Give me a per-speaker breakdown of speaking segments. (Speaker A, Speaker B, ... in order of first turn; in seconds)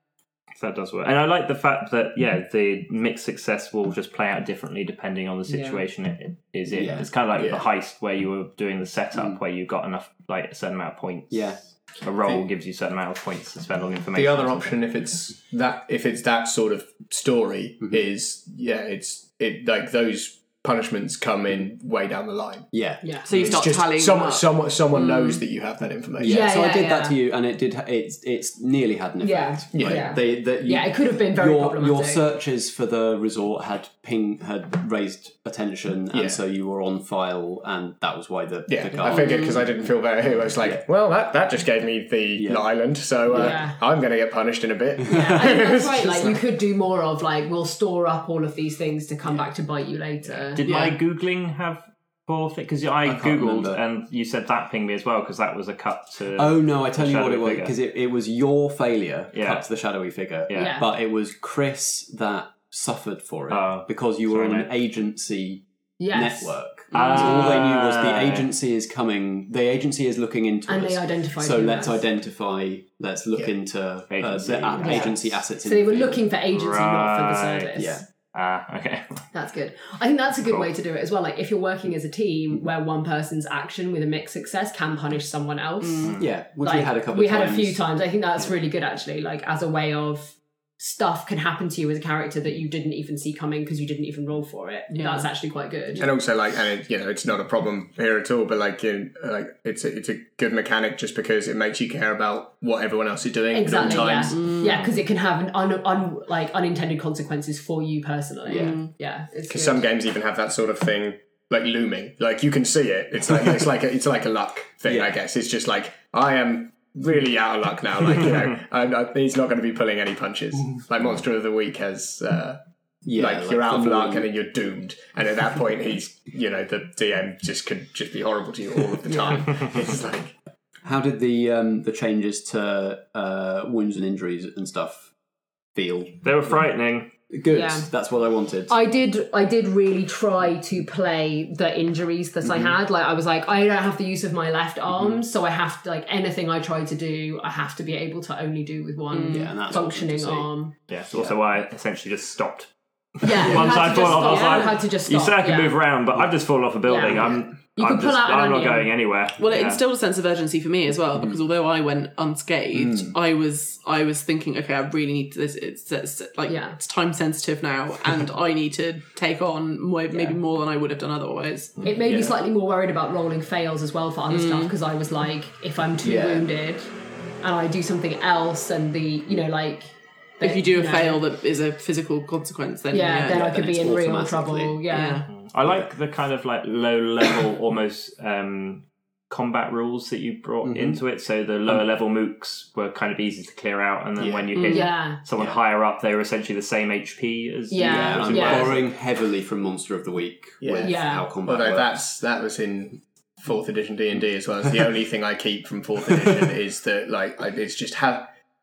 Speaker A: 0.6-14.7, 23.3-23.7, 50.4-57.7, 59.3-59.7, 60.5-60.8, 63.5-64.7, 66.9-68.5, 74.1-75.1, 76.5-77.7, 78.3-79.1, 136.2-137.1, 150.9-159.8, 185.3-198.8
Speaker B: 5.5-5.8, 23.0-23.3, 26.2-27.2, 29.2-32.2, 43.3-43.8, 45.1-50.7, 60.5-60.9, 66.0-67.2, 70.7-72.0, 74.8-78.0, 79.3-96.1, 103.5-109.9, 129.1-129.5, 137.5-137.9, 138.7-150.8, 153.2-155.8, 156.8-158.9, 166.5-166.8, 171.8-181.2, 182.9-185.2, 194.7-195.2, 197.7-198.8, 200.8-201.3
Speaker C: 6.7-7.1, 9.2-9.4, 11.3-11.6, 12.2-12.5, 22.7-23.0, 26.2-39.6, 42.4-42.7, 43.3-43.6, 45.1-45.4, 50.6-51.0, 53.0-53.8, 56.4-76.2, 77.8-78.0, 86.1-87.8, 114.9-115.2, 123.0-124.3, 130.8-135.1, 135.8-136.6, 137.3-138.8, 142.4-142.8, 149.3-150.5, 162.8-163.1, 170.1-170.4, 172.0-172.3, 176.0-176.5, 183.2-184.9, 185.7-185.9, 190.7-191.0, 197.8-202.0
Speaker D: 7.3-7.7, 14.1-22.7, 23.4-26.5, 29.7-30.1, 36.1-36.4, 38.7-46.4, 96.0-104.4, 109.5-122.6, 123.2-130.3, 194.2-194.5, 200.6-208.3
Speaker E: 23.2-25.4, 85.8-86.2, 94.9-95.3, 104.3-104.8, 108.5-108.9, 149.1-149.5, 153.5-154.7, 159.4-171.8, 174.3-174.8, 180.4-183.4, 184.9-185.3